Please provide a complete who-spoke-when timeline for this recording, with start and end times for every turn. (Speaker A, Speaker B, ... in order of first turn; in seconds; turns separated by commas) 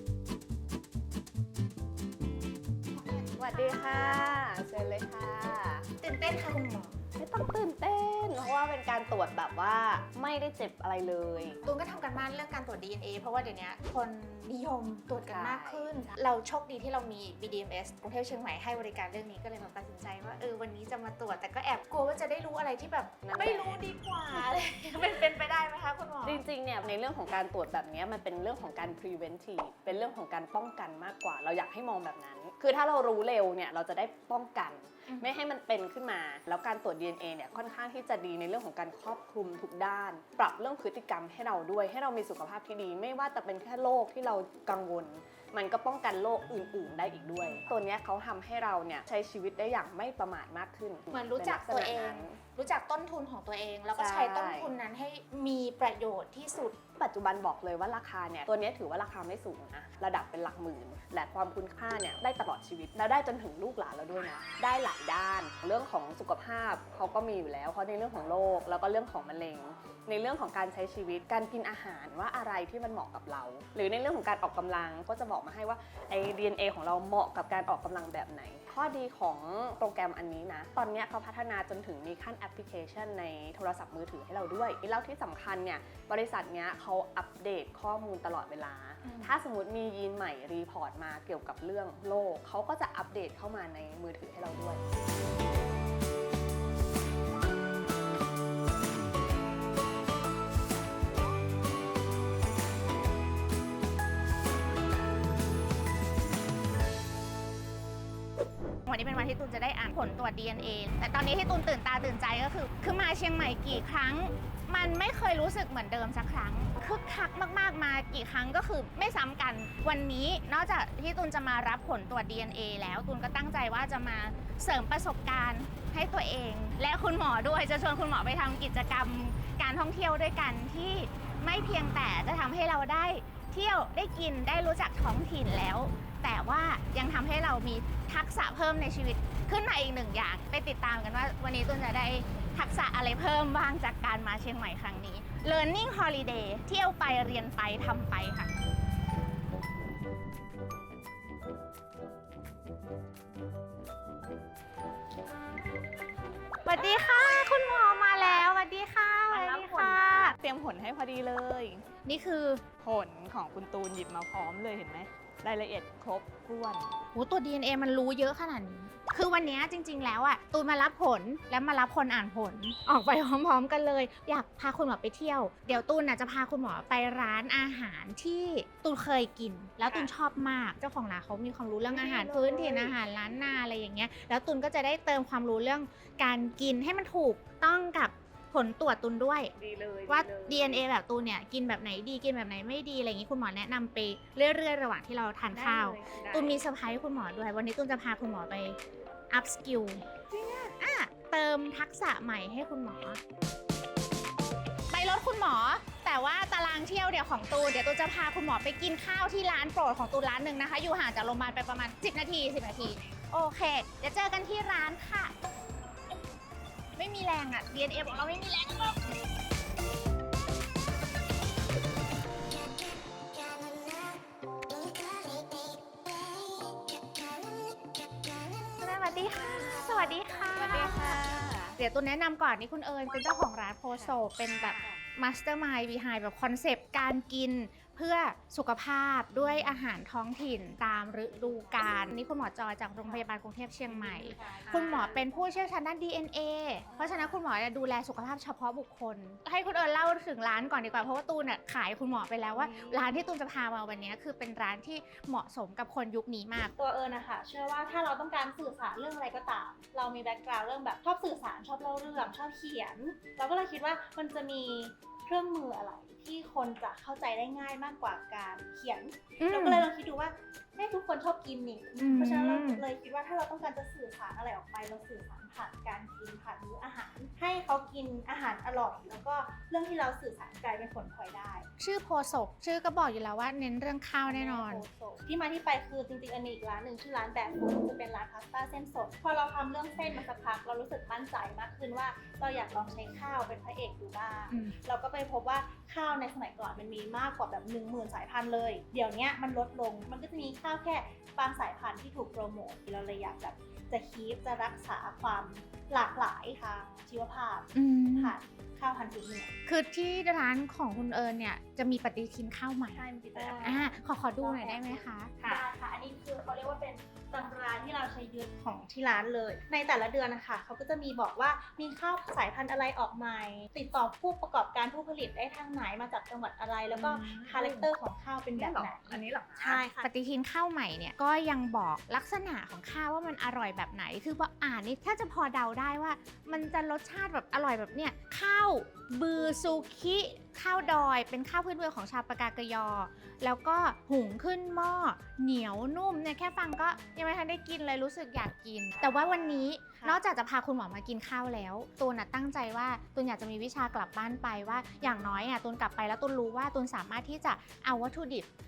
Speaker A: 2.9-4.4, Speaker B: 3.4-5.9, Speaker A: 6.0-7.0, Speaker B: 7.2-11.6, Speaker A: 11.6-26.4, Speaker B: 15.3-15.9, Speaker B: 23.2-23.9, Speaker B: 26.2-52.4, Speaker A: 47.4-47.7, Speaker A: 51.1-56.8, Speaker B: 54.0-54.7, Speaker B: 57.0-94.8, Speaker A: 89.0-89.3, Speaker A: 108.8-148.5, Speaker A: 156.7-160.4, Speaker C: 159.3-161.8, Speaker A: 162.1-162.6, Speaker C: 162.8-166.9, Speaker A: 167.1-189.5, Speaker B: 181.9-182.9, Speaker B: 189.6-190.8, Speaker A: 190.1-198.8, Speaker B: 195.8-196.2, Speaker C: 196.2-196.5, Speaker A: 199.3-200.1, Speaker A: 200.8-203.2, Speaker A: 204.9-215.3, Speaker A: 217.0-219.0, Speaker A: 228.8-231.2, Speaker C: 230.5-231.8, Speaker A: 231.8-256.7, Speaker D: 233.9-235.0, Speaker D: 241.3-242.2, Speaker D: 244.1-245.5, Speaker D: 246.8-247.4, Speaker D: 256.8-281.7, Speaker A: 269.4-269.9, Speaker A: 272.0-272.8, Speaker A: 281.8-284.8, Speaker D: 284.2-309.5, Speaker A: 307.7-308.4, Speaker A: 309.7-313.1, Speaker B: 313.0-313.8, Speaker D: 313.4-330.1, Speaker A: 313.6-315.4, Speaker C: 326.9-327.7, Speaker B: 327.3-327.7, Speaker B: 328.6-329.8, Speaker A: 330.0-358.5, Speaker D: 340.7-341.1, Speaker D: 346.9-347.2, Speaker D: 348.9-350.2